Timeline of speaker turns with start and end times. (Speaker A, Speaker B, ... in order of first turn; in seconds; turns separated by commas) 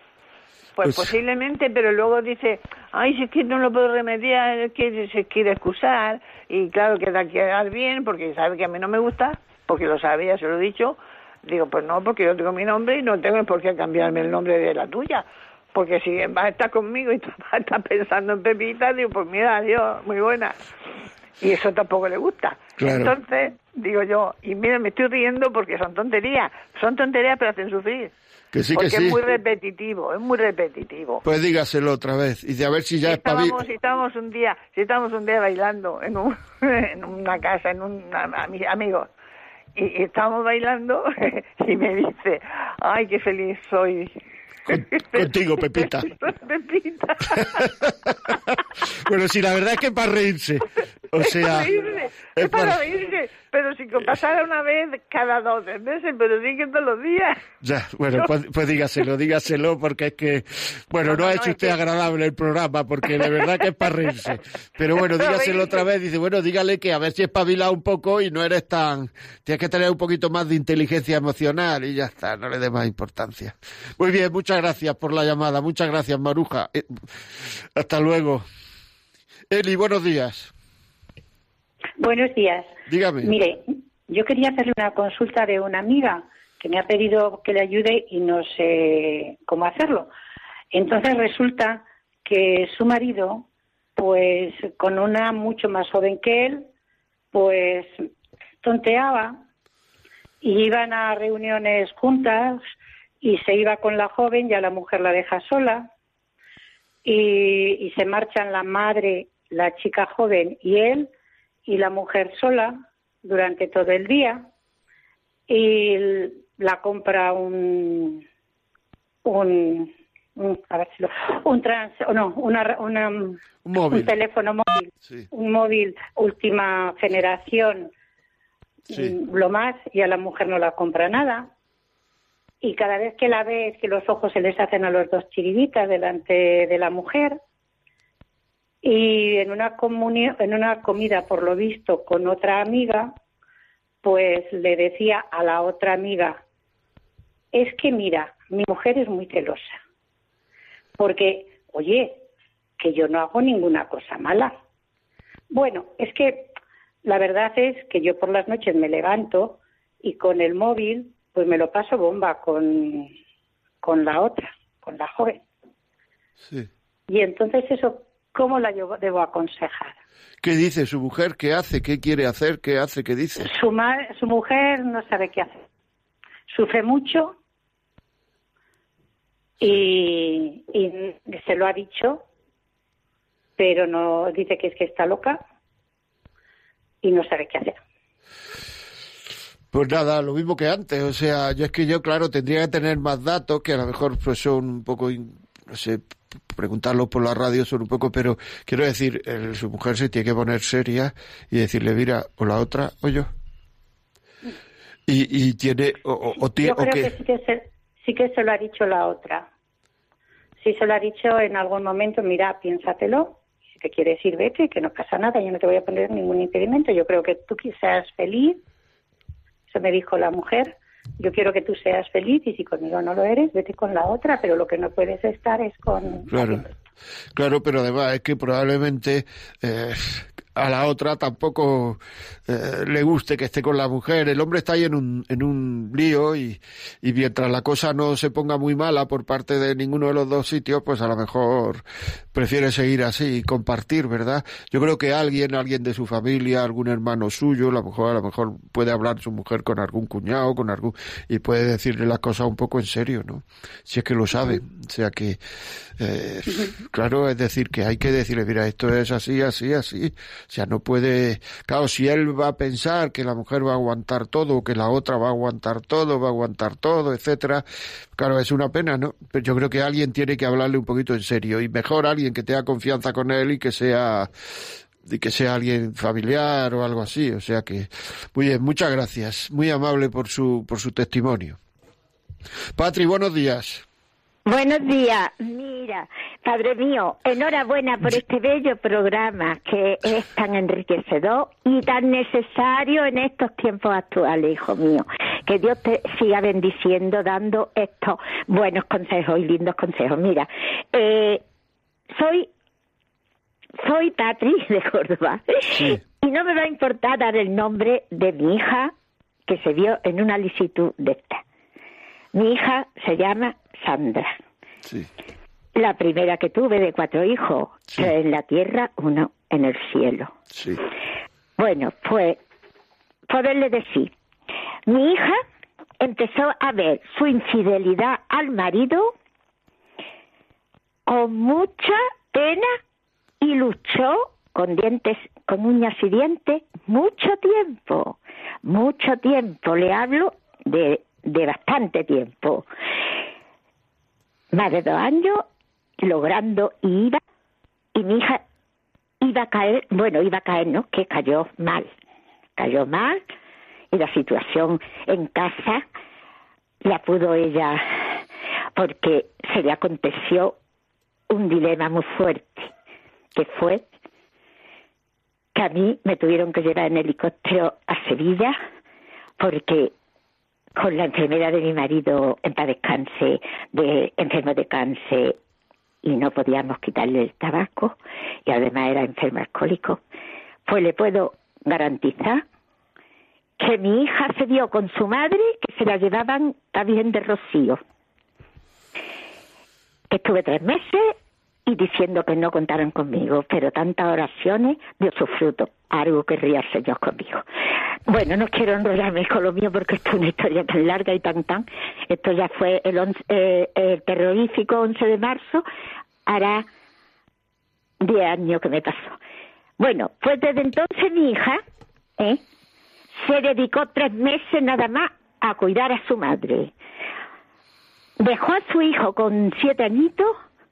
Speaker A: 0.8-20.6, Speaker B: 0.8-1.1, Speaker A: 21.4-28.1, Speaker B: 22.8-23.1, Speaker B: 28.5-29.2, Speaker A: 28.7-31.2, Speaker B: 31.2-33.6, Speaker A: 33.0-39.1, Speaker A: 39.7-44.1, Speaker B: 44.7-46.1, Speaker A: 44.7-47.6, Speaker B: 47.4-51.7, Speaker A: 51.2-57.4, Speaker B: 52.3-52.8, Speaker B: 57.6-76.9, Speaker A: 61.0-61.8, Speaker A: 63.2-63.6, Speaker A: 65.2-65.8, Speaker B: 77.5-78.4, Speaker B: 79.5-80.5, Speaker C: 82.0-90.1, Speaker B: 82.9-83.3, Speaker C: 90.7-93.5, Speaker C: 94.0-96.7, Speaker C: 97.3-97.9, Speaker C: 98.6-99.4, Speaker C: 100.4-102.6, Speaker C: 103.2-105.9, Speaker C: 107.0-111.1, Speaker C: 111.7-114.5, Speaker C: 115.5-118.2, Speaker C: 119.2-127.9, Speaker B: 123.6-124.1, Speaker C: 128.9-131.5, Speaker C: 132.6-137.4, Speaker C: 138.8-143.1, Speaker C: 144.0-146.4, Speaker C: 147.5-149.8, Speaker C: 151.0-152.2, Speaker C: 152.8-154.5, Speaker C: 155.5-156.5, Speaker C: 157.0-163.1, Speaker C: 163.8-165.4, Speaker C: 167.1-170.0, Speaker B: 170.4-173.5, Speaker C: 173.4-175.6, Speaker C: 176.5-177.3, Speaker C: 179.6-182.2, Speaker C: 183.6-185.4, Speaker C: 187.0-187.8, Speaker B: 189.7-203.3, Speaker B: 205.1-207.1, Speaker C: 206.5-209.5, Speaker C: 210.6-218.6, Speaker C: 219.7-226.7, Speaker B: 226.3-226.7, Speaker B: 227.3-255.4, Speaker B: 256.0-267.6, Speaker B: 268.1-274.3, Speaker B: 275.0-281.6, Speaker B: 282.8-283.8, Speaker D: 284.4-301.4, Speaker D: 302.1-302.5, Speaker D: 303.8-308.9, Speaker B: 305.7-306.0, Speaker D: 309.5-311.4, Speaker D: 312.3-314.4, Speaker D: 315.7-320.3, Speaker B: 320.5-320.8, Speaker D: 321.6-322.4, Speaker D: 323.3-324.1, Speaker D: 324.9-325.4, Speaker D: 326.0-329.1, Speaker D: 331.1-332.8, Speaker D: 333.4-342.7, Speaker D: 344.5-345.5, Speaker D: 346.0-347.2, Speaker D: 347.9-348.4, Speaker D: 349.2-351.9, Speaker D: 352.6-353.2, Speaker D: 353.9-355.8, Speaker D: 356.8-358.2, Speaker D: 358.7-360.6, Speaker D: 361.3-362.7, Speaker D: 363.3-363.9, Speaker D: 365.5-368.6, Speaker D: 369.4-369.9, Speaker D: 370.8-375.4, Speaker D: 376.0-380.0, Speaker D: 380.6-382.4, Speaker D: 383.6-387.8, Speaker D: 390.1-391.1, Speaker D: 391.6-397.4, Speaker D: 398.1-405.6, Speaker D: 406.2-406.7, Speaker D: 408.0-409.2, Speaker D: 409.8-411.6, Speaker D: 413.2-416.7, Speaker D: 418.2-420.4